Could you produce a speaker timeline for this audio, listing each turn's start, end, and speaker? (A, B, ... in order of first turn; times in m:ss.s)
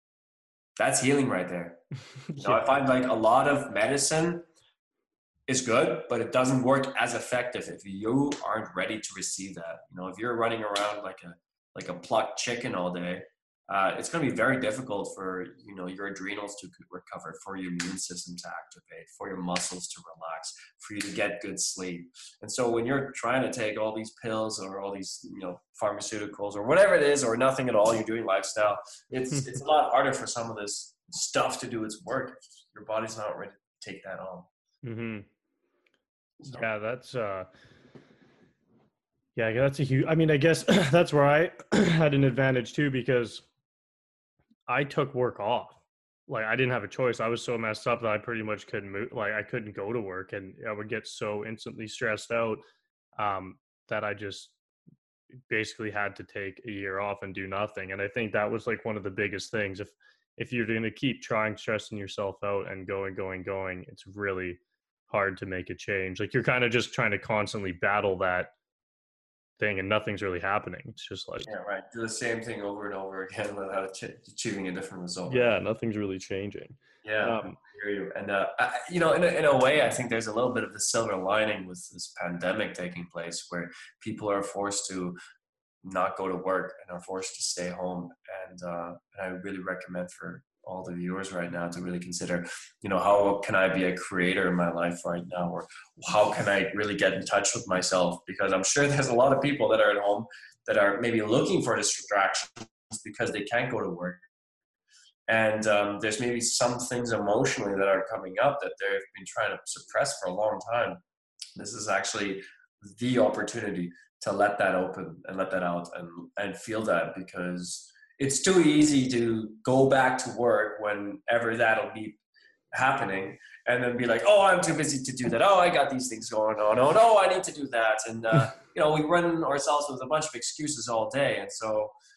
0:00.8-0:01.8 A
0:02.3-0:02.7 B
0:02.4-0:04.4 A
0:05.5-0:34.5 A
0:29.3-0:29.6 B
0:34.8-0:35.3 B
0:36.4-0:36.6 A
0:36.5-0:37.5 B
0:39.4-0:43.4 B
0:44.7-0:52.6 B
0:53.2-0:54.5 B
0:55.5-1:08.5 B
1:09.6-1:11.5 B
1:11.4-1:15.6 A
1:15.3-1:17.6 B
1:17.0-1:25.2 A
1:25.8-1:44.2 A
1:45.3-1:51.0 A
1:51.6-2:02.2 A
2:02.7-2:11.9 A